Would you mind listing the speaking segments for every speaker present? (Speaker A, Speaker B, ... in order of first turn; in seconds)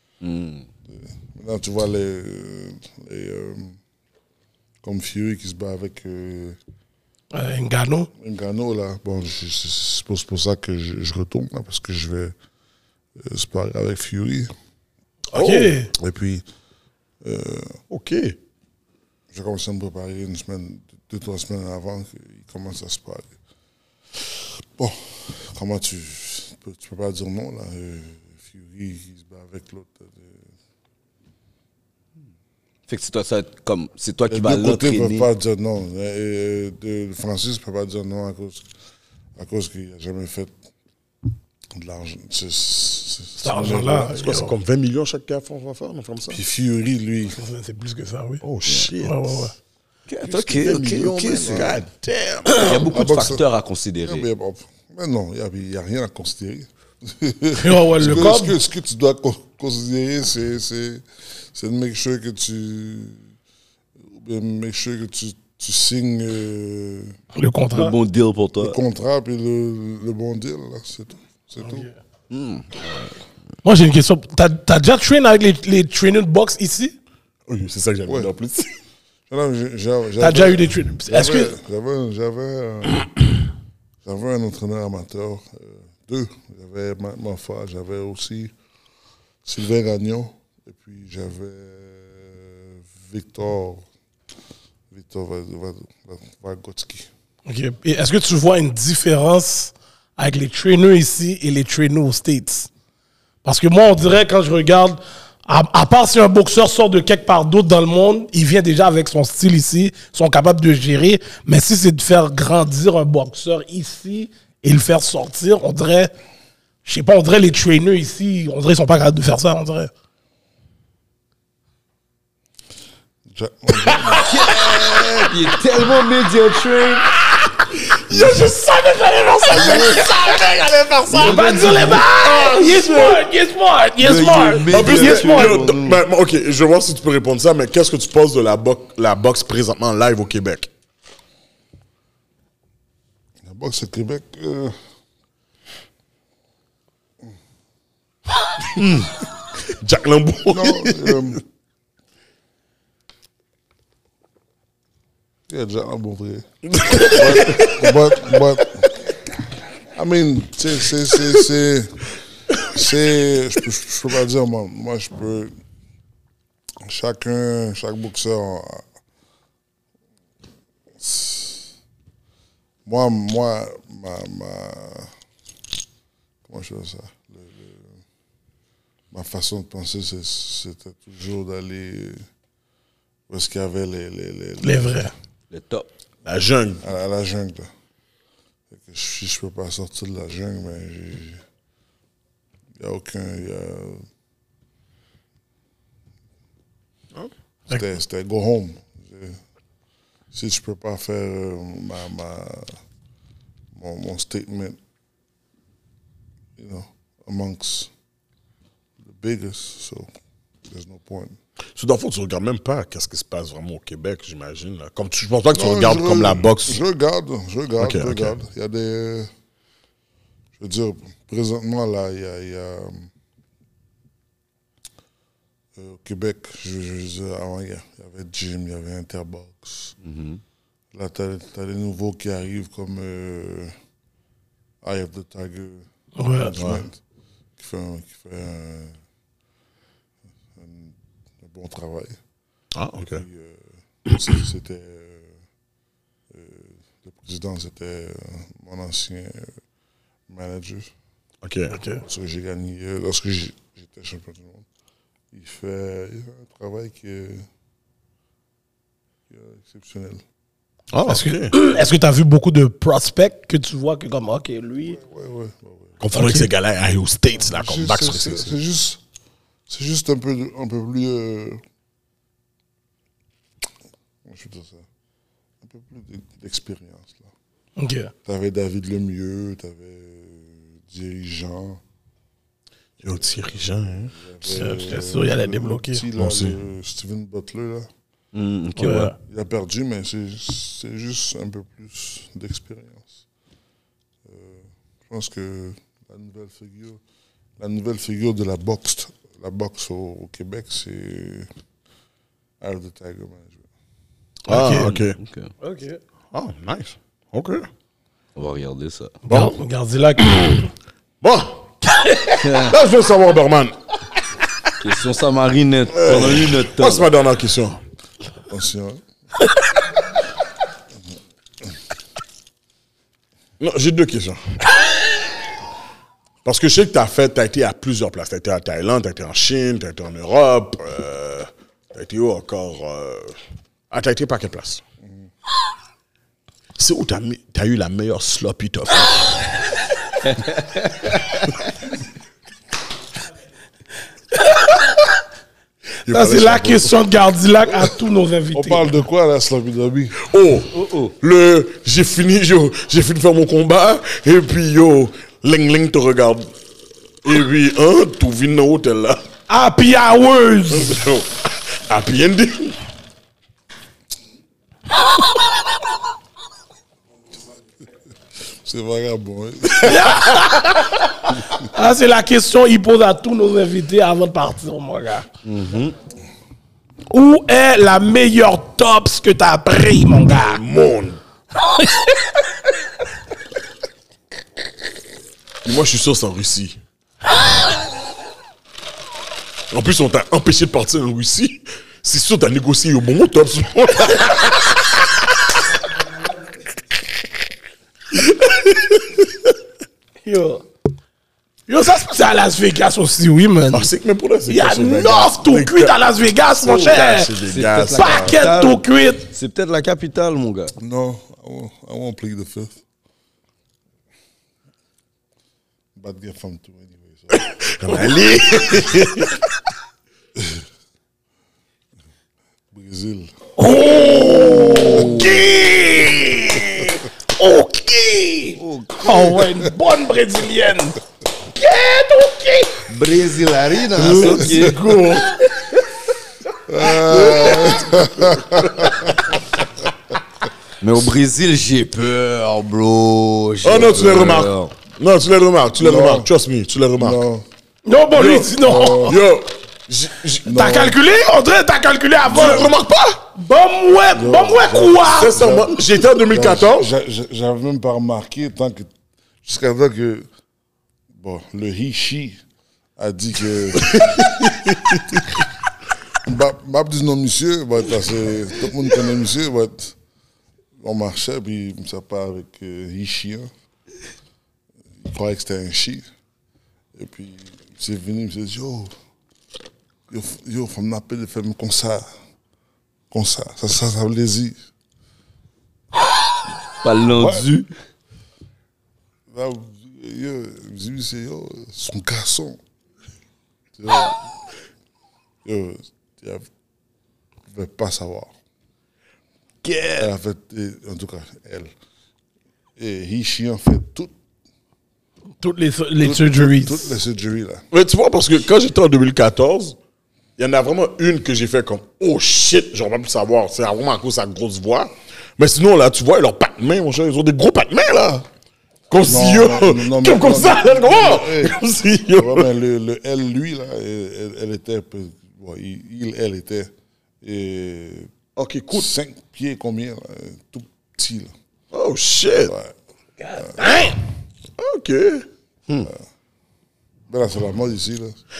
Speaker A: 0.2-0.7, 32.9-35.3, 50.1-51.8, 52.5-54.3, 67.7-68.8, 72.3-73.1, 124.2-127.1, 129.6-130.0, 131.1-132.1, 134.0-136.0, 148.8-149.1, 185.5-185.9, 230.0-230.4, 288.3-289.1, 304.8-305.5, 308.4-309.2, 312.4-312.8, 314.8-317.1, 340.3-341.2, 350.7-351.1, 375.4-375.9, 406.6-410.7, 424.9-425.4, 432.9-434.8, 440.8-444.7, 486.8-487.7, 499.6-500.1
Speaker B: 0.9-3.8, 4.8-6.6, 8.1-12.3, 13.2-14.5, 16.0-16.4, 17.2-17.8, 19.3-23.4, 24.3-30.5, 34.3-38.7, 39.4-40.6, 41.7-44.1, 46.3-47.4, 51.4-51.8, 52.9-53.5, 54.0-63.3, 64.0-67.2, 68.6-71.9, 79.3-83.1, 84.0-88.5, 89.5-93.8, 94.9-97.1, 123.3-124.3, 143.4-144.8, 150.5-151.4, 155.5-159.0, 159.9-165.6, 166.8-168.9, 171.0-171.7, 172.8-175.1, 176.4-178.0, 179.1-182.2, 183.3-185.1, 186.8-187.7, 188.7-191.4, 192.8-194.1, 197.7-199.4, 200.3-202.8, 203.7-204.8, 206.6-207.9, 209.0-210.1, 210.7-211.4, 215.5-219.3, 220.6-223.1, 225.8-229.9, 230.9-233.8, 234.8-237.0, 237.6-239.0, 240.6-242.2, 243.1-245.4, 246.3-249.6, 250.3-250.9, 252.0-254.7, 255.3-257.5, 259.3-260.2, 264.8-266.0, 267.5-269.0, 269.7-271.6, 274.2-274.9, 275.6-277.3, 278.3-281.8, 284.0-287.9, 289.2-293.2, 294.2-297.0, 297.6-301.5, 302.6-303.7, 318.5-319.0, 348.5-350.2, 368.6-370.2, 410.8-412.8, 416.0-417.4, 420.4-420.6, 422.7-423.3, 428.6-429.7, 434.2-434.7, 436.7-439.4, 445.8-446.3, 447.0-447.5, 448.5-449.2, 450.4-451.0, 454.1-458.9, 459.4-460.3, 461.1-462.4, 463.0-464.3, 466.2-470.0, 470.8-473.5, 475.0-476.1, 476.9-478.9, 480.1-482.1, 483.1-484.6, 487.1-487.5, 489.3-492.6, 493.8-494.3, 495.4-496.5, 497.5-498.3, 500.0-501.7, 502.8-504.1, 506.0-507.6, 519.0-521.6, 522.2-526.7, 527.2-528.1, 528.7-531.3, 532.5-532.7, 537.1-538.2
Speaker C: 7.3-8.1, 15.3-15.9, 43.4-44.5, 47.4-48.4, 49.0-49.5, 57.6-58.6, 67.3-68.0, 71.6-72.0, 73.6-76.9, 80.2-81.5, 97.5-102.7, 103.4-116.1, 116.8-119.9, 128.1-130.4, 131.1-135.6, 184.6-185.1, 236.2-236.6, 251.8-252.0, 261.1-265.0, 266.1-266.5, 277.8-278.1, 284.4-286.0, 288.8-289.1, 304.5-304.9, 305.6-306.0, 309.3-310.6, 346.1-348.9, 359.5-361.0, 369.8-370.9, 371.5-375.3, 377.1-380.6, 381.7-382.0, 400.2-400.6, 401.7-403.9, 404.5-407.3, 407.9-409.3, 423.6-431.0, 431.6-432.9, 447.9-449.2, 450.4-452.7, 453.4-455.4, 505.4-506.9, 533.2-534.0
Speaker D: 15.3-15.9, 17.9-18.4, 44.1-46.4, 48.4-49.5, 50.2-52.7, 77.5-78.7, 128.1-128.6, 129.3-133.2, 134.7-140.7, 149.7-151.4, 156.7-158.0, 186.2-186.8, 211.8-216.8, 217.8-218.3, 236.6-236.8, 242.8-243.2, 251.4-251.8, 260.9-261.6, 266.0-268.5, 283.0-284.1, 286.2-286.6, 304.5-305.2, 306.3-307.7, 309.3-309.6, 310.2-310.6, 311.2-311.7, 312.5-313.8, 315.9-317.8, 323.6-324.4, 326.4-333.4, 333.9-334.8, 336.8-339.6, 346.1-347.0, 350.2-356.5, 357.2-359.2, 360.7-362.8, 380.3-381.2, 385.6-386.8, 389.7-395.0, 398.2-399.2, 403.7-406.0, 406.7-408.4, 417.3-419.4, 433.9-435.4, 437.0-439.1, 443.6-447.2, 448.1-448.5, 449.1-450.5, 452.3-453.2, 455.1-456.9, 463.8-465.3, 507.7-509.8, 510.4-518.3, 518.9-522.5, 528.4-528.9, 531.7-532.5, 534.6-535.3